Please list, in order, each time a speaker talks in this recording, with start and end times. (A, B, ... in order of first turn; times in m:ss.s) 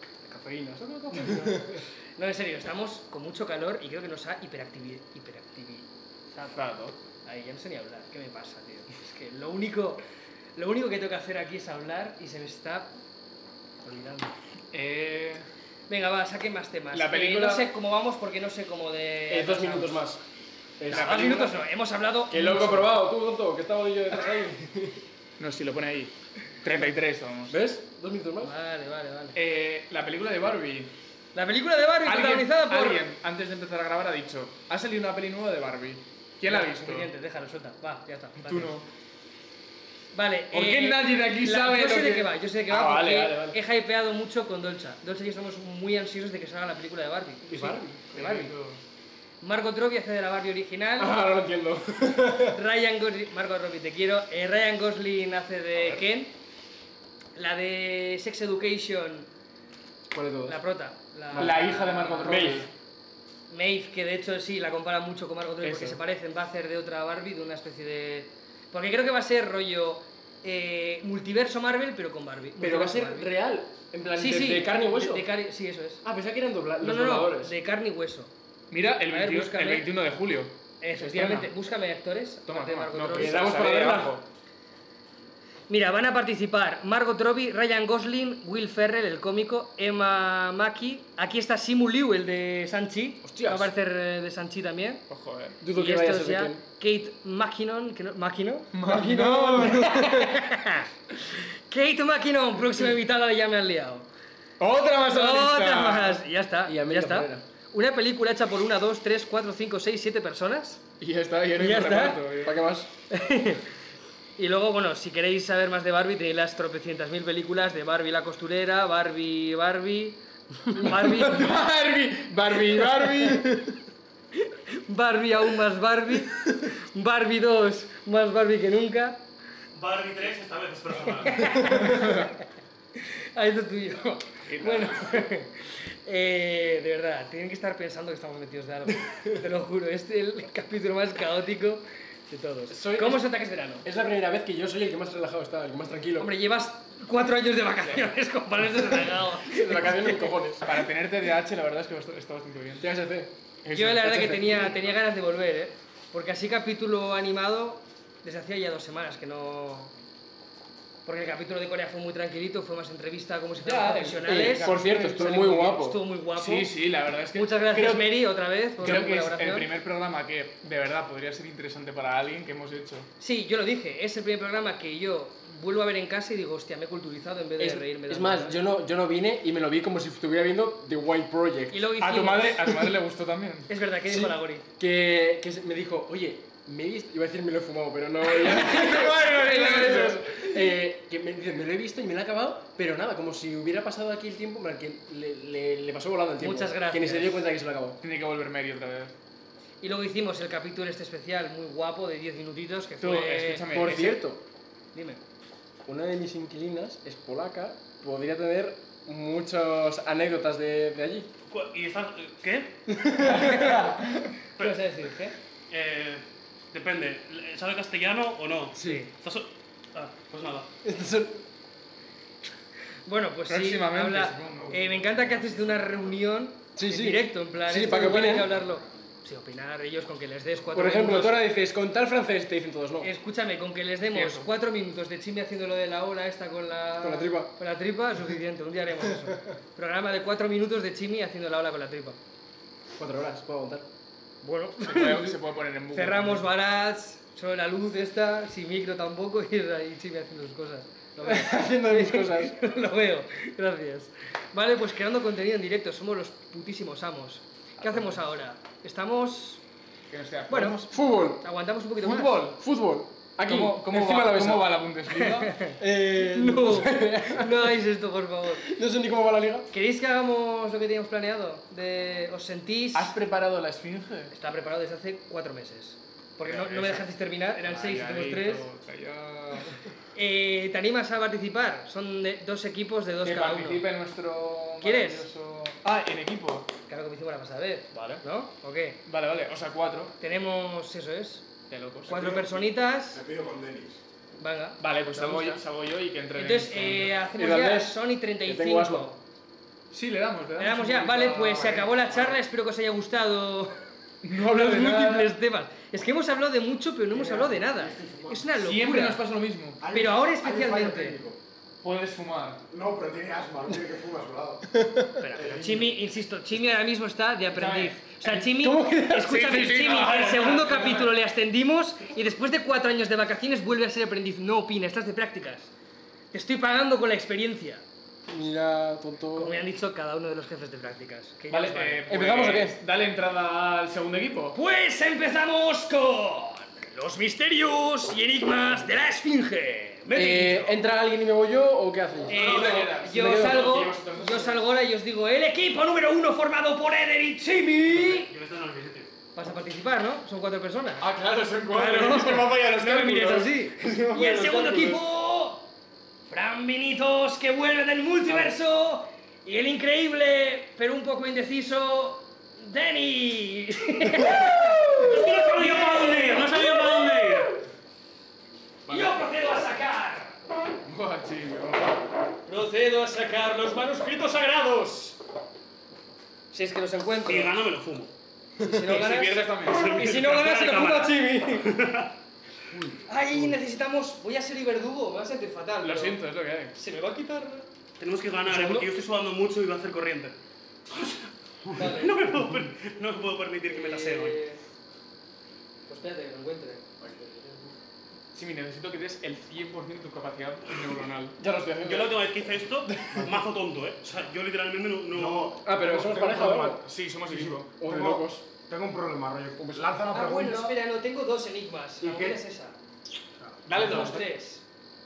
0:00.3-0:06.7 A
0:01.1-0:01.8 B
0:06.5-0:07.0 C
0:07.2-0:10.0 A
0:10.6-0:12.9 A
0:13.8-0:14.3 A
0:14.7-0:15.4 C
0:15.9-0:20.0 A
0:16.9-0:17.7 C
0:19.3-0:20.2 B
0:20.8-0:21.3 B
0:20.9-0:21.6 C
0:20.9-0:22.9 A
0:22.3-0:25.0 B
0:25.4-0:27.6 C
0:27.5-0:28.5 B
0:28.4-0:29.4 A
0:29.3-0:30.9 C
0:31.3-0:33.0 A
0:32.0-0:37.1 C
0:36.4-0:38.7 A
0:38.4-0:38.9 C
0:40.1-0:48.5 A
0:40.5-0:43.6 C
0:47.5-0:48.1 B
0:48.1-0:48.8 C
0:49.4-0:51.2 A
0:51.0-0:52.6 B
0:52.5-0:56.3 A
0:57.3-0:59.3 A
1:00.1-1:00.6 B
1:00.5-1:02.6 A
1:01.3-1:01.7 B
1:01.3-1:02.7 C
1:02.2-1:02.6 B
1:03.5-1:13.3 A
1:05.6-1:06.0 C
1:12.6-1:15.3 B
1:14.1-1:16.0 A
1:16.0-1:17.5 B
1:16.8-1:18.3 A
1:18.7-1:21.5 C
1:19.1-1:19.9 A
1:20.8-1:23.8 A
1:22.4-1:24.2 C
1:23.1-1:24.2 B
1:25.7-1:35.0 A
1:33.2-1:33.7 B
1:35.1-1:35.6 C
1:35.6-1:36.6 B
1:35.7-1:44.1 A
1:38.7-1:40.2 C
1:44.6-1:46.2 C
1:45.1-1:50.8 A
1:46.6-1:47.4 B
1:51.0-1:52.6 C
1:51.6-1:52.3 A
1:52.4-1:52.9 B
1:53.1-1:53.6 A
1:54.4-2:01.6 A
2:00.8-2:01.5 B
2:01.0-2:03.7 C
2:02.8-2:03.3 A
2:04.4-2:09.2 A
2:09.7-2:11.8 D
2:11.3-2:12.4 A
2:11.8-2:12.3 C
2:13.0-2:23.8 A
2:14.4-2:15.3 C
2:22.7-2:23.3 B
2:23.8-2:26.3 B
2:26.2-2:30.3 A
2:29.3-2:30.7 B
2:30.6-2:32.9 C
2:32.8-2:33.3 B
2:33.6-2:34.4 C
2:33.7-2:39.9 A
2:34.0-2:34.6 B
2:41.0-2:46.7 A
2:43.6-2:46.0 B
2:44.2-2:45.4 C
2:46.3-2:48.1 C
2:47.3-2:49.7 A
2:48.8-2:53.1 C
2:53.2-2:58.6 A
2:57.6-3:01.9 B
3:01.7-3:02.6 A
3:02.0-3:03.7 C
3:03.7-3:04.6 A
3:04.1-3:18.0 B
3:08.2-3:10.6 C
3:08.8-3:10.0 A
3:16.4-3:17.4 A
3:18.0-3:19.1 C
3:19.8-3:24.1 A
3:23.0-3:24.2 C
3:23.7-3:24.4 B
3:24.9-3:25.2 A
3:25.8-3:31.3 B
3:31.5-3:32.8 D
3:32.9-3:33.8 B
3:33.2-3:34.0 A
3:33.3-3:34.3 C
3:34.6-3:35.3 A
3:35.7-3:40.7 D
3:38.8-3:39.1 A
3:40.8-3:41.4 B
3:43.0-3:51.4 A
3:43.5-3:46.1 C
3:46.8-3:48.5 B
3:50.7-3:53.1 B
3:53.0-4:02.2 A
3:54.0-3:54.5 C
3:57.0-3:57.5 B
4:03.0-4:03.9 B
4:04.4-4:05.4 A
4:04.8-4:06.5 C
4:05.9-4:19.6 A
4:11.2-4:12.5 B
4:20.1-4:21.0 C
4:20.5-4:20.8 A
4:20.9-4:21.4 B
4:21.4-4:22.6 A
4:22.0-4:22.6 C
4:22.6-4:24.8 B
4:23.4-4:25.6 C
4:25.1-4:28.7 A
4:25.8-4:27.8 B
4:28.6-4:29.7 B
4:29.7-4:33.1 A
4:32.9-4:34.3 C
4:34.3-4:38.6 A
4:36.4-4:37.0 C
4:37.6-4:39.8 C
4:40.1-4:43.9 A
4:43.2-4:46.7 C
4:44.8-4:45.2 A
4:46.9-4:49.0 A
4:47.9-4:48.2 C
4:49.0-4:50.2 C
4:50.2-4:51.5 A
4:51.7-4:52.2 C
4:52.0-4:53.2 A
4:52.1-4:52.4 E
4:52.1-4:52.5 B
4:53.1-4:54.0 B
4:53.3-4:53.8 E
4:54.4-4:54.8 A
4:54.8-4:57.2 C
4:55.1-4:55.6 B
4:56.4-4:59.2 A
4:57.4-4:59.1 B
4:59.9-5:02.4 C
5:00.6-5:03.8 A
5:04.2-5:05.3 C
5:04.3-5:09.2 A
5:07.1-5:08.5 E
5:08.6-5:09.8 C
5:09.8-5:11.4 E
5:09.9-5:11.2 A
5:11.8-5:12.6 C
5:12.7-5:14.6 E
5:15.2-5:25.7 A
5:15.3-5:15.9 E
5:17.5-5:18.0 C
5:18.3-5:19.6 B
5:19.2-5:21.1 C
5:26.3-5:27.8 A
5:28.3-5:29.6 B
5:29.3-5:32.1 A
5:31.5-5:34.6 C
5:32.1-5:32.8 B
5:34.5-5:40.8 A
5:40.1-5:43.8 B
5:42.3-5:48.3 A
5:42.3-5:44.6 C
5:47.9-5:49.1 D
5:49.3-5:51.1 A
5:51.0-5:54.9 C
5:51.7-5:55.7 A
5:53.8-5:55.0 B
5:56.3-6:07.5 A
6:04.9-6:07.6 D
6:08.9-6:09.3 C
6:08.9-6:10.4 A
6:10.8-6:12.0 C
6:12.5-6:15.2 A
6:16.5-6:17.6 A
6:17.2-6:18.1 D
6:18.6-6:21.7 A
6:18.7-6:20.0 C
6:19.7-6:22.1 D
6:22.7-6:23.6 E
6:23.0-6:26.2 A
6:25.8-6:26.8 C
6:26.7-6:27.7 A
6:28.0-6:30.3 D
6:28.5-6:28.8 B
6:30.9-6:34.4 D
6:31.7-6:32.2 A
6:33.7-6:34.6 A
6:35.9-6:36.8 A
6:37.0-6:37.7 B
6:38.3-6:41.4 C
6:41.4-6:42.3 B
6:41.8-6:45.6 D
6:42.8-6:43.3 B
6:45.1-6:50.8 E
6:45.6-6:46.8 B
6:46.8-6:47.7 C
6:47.8-6:48.4 B
6:50.1-6:52.8 A
6:52.0-6:52.4 E
6:53.4-6:54.2 E
6:53.6-6:54.3 C
6:53.8-6:54.6 A